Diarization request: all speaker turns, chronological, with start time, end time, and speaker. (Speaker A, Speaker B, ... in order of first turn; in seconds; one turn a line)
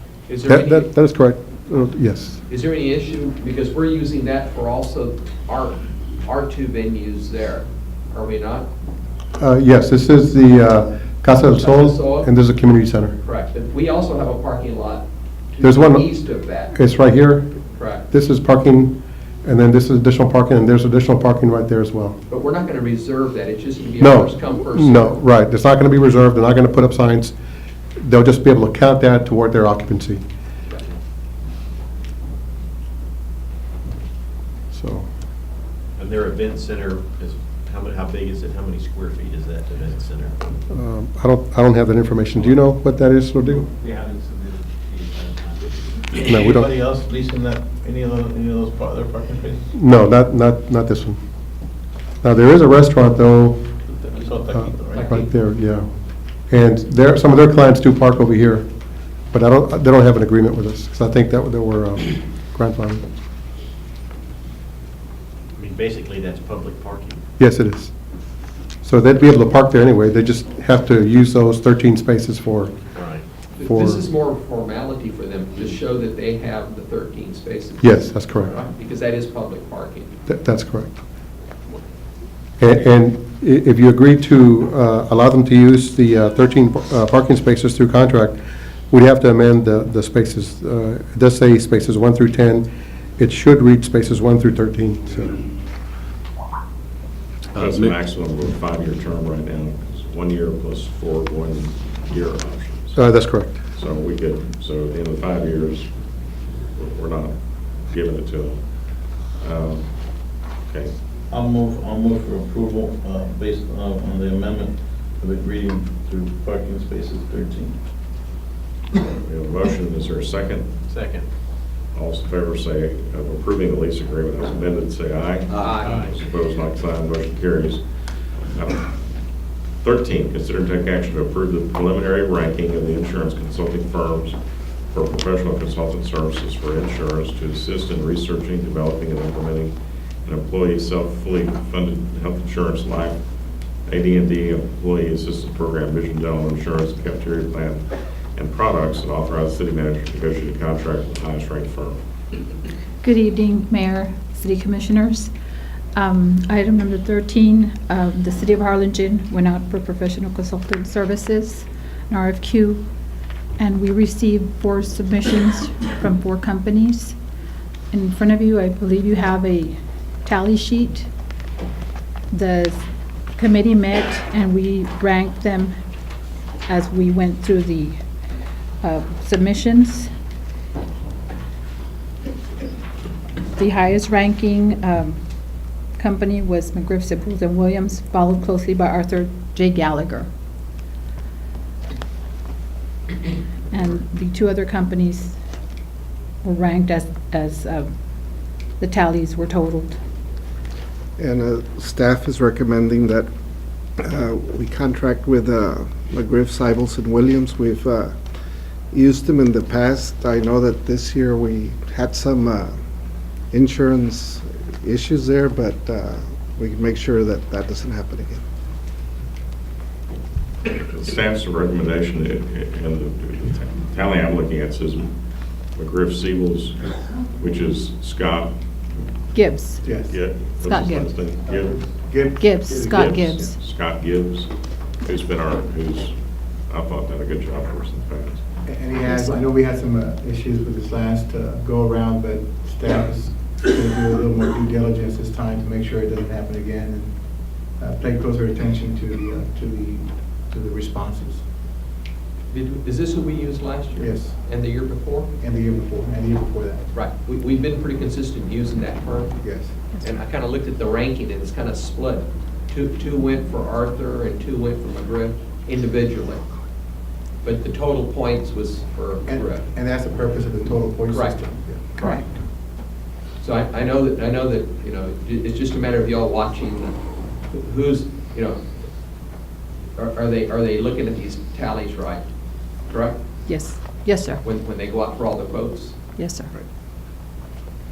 Speaker A: 0.3-0.9
Speaker B: 0.5-2.4
Speaker A: 2.5-8.7
Speaker B: 9.4-13.2
Speaker A: 11.4-12.3
Speaker A: 13.2-16.7
Speaker B: 15.6-22.2
Speaker A: 17.7-18.1
Speaker A: 22.3-25.2
Speaker B: 24.0-27.4
Speaker B: 28.0-30.2
Speaker B: 34.7-35.1
Speaker C: 36.0-40.4
Speaker B: 40.7-43.6
Speaker C: 43.8-45.6
Speaker C: 46.2-46.6
Speaker B: 46.2-46.7
Speaker D: 46.2-49.6
Speaker B: 49.7-51.2
Speaker B: 52.2-53.6
Speaker D: 54.1-55.0
Speaker B: 54.5-55.9
Speaker A: 54.9-55.3
Speaker B: 56.5-58.7
Speaker B: 59.3-63.0
Speaker C: 65.5-67.2
Speaker B: 67.4-67.9
Speaker B: 68.8-72.8
Speaker C: 73.0-73.2
Speaker A: 73.6-80.1
Speaker B: 73.6-74.0
Speaker B: 77.8-78.6
Speaker B: 80.3-80.9
Speaker B: 82.6-88.4
Speaker B: 88.9-92.7
Speaker B: 93.2-95.5
Speaker E: 97.5-103.0
Speaker C: 97.6-97.9
Speaker B: 102.9-103.6
Speaker E: 103.7-106.1
Speaker E: 106.7-110.9
Speaker D: 111.3-117.7
Speaker E: 119.0-120.7
Speaker C: 120.9-121.2
Speaker E: 121.9-127.8
Speaker A: 125.5-125.9
Speaker C: 125.6-126.1
Speaker E: 128.5-128.9
Speaker E: 129.8-134.4
Speaker E: 134.9-139.7
Speaker E: 140.2-143.2
Speaker E: 143.9-147.8
Speaker E: 148.3-152.0
Speaker F: 153.0-155.3
Speaker F: 155.9-162.8
Speaker F: 163.6-167.2
Speaker F: 167.9-171.1
Speaker F: 172.3-172.8
Speaker F: 173.4-175.7
Speaker F: 176.7-178.0
Speaker F: 178.8-180.1
Speaker F: 183.6-185.2
Speaker F: 186.0-190.3
Speaker F: 193.7-195.3
Speaker F: 196.4-197.9
Speaker F: 198.8-200.0
Speaker G: 201.2-203.3
Speaker G: 204.0-208.1
Speaker G: 208.9-212.7
Speaker G: 213.5-218.4
Speaker E: 220.7-225.1
Speaker E: 225.7-228.5
Speaker F: 229.3-229.8
Speaker H: 229.8-230.4
Speaker E: 230.0-231.8
Speaker F: 230.6-231.2
Speaker H: 231.4-233.5
Speaker F: 232.3-233.6
Speaker E: 232.9-238.4
Speaker H: 238.6-247.1
Speaker F: 239.0-239.4
Speaker H: 247.8-251.4
Speaker A: 252.5-255.3
Speaker H: 253.9-254.4
Speaker H: 255.4-256.9
Speaker A: 256.9-259.4
Speaker H: 259.4-259.9
Speaker A: 260.0-266.4
Speaker A: 267.4-269.7
Speaker H: 269.3-272.2
Speaker A: 271.1-271.4
Speaker F: 272.0-272.3
Speaker A: 273.4-277.0
Speaker A: 277.5-278.6
Speaker A: 279.9-282.3
Speaker A: 282.9-283.2
Speaker F: 283.4-284.4
Speaker A: 284.4-286.0
Speaker F: 286.1-286.5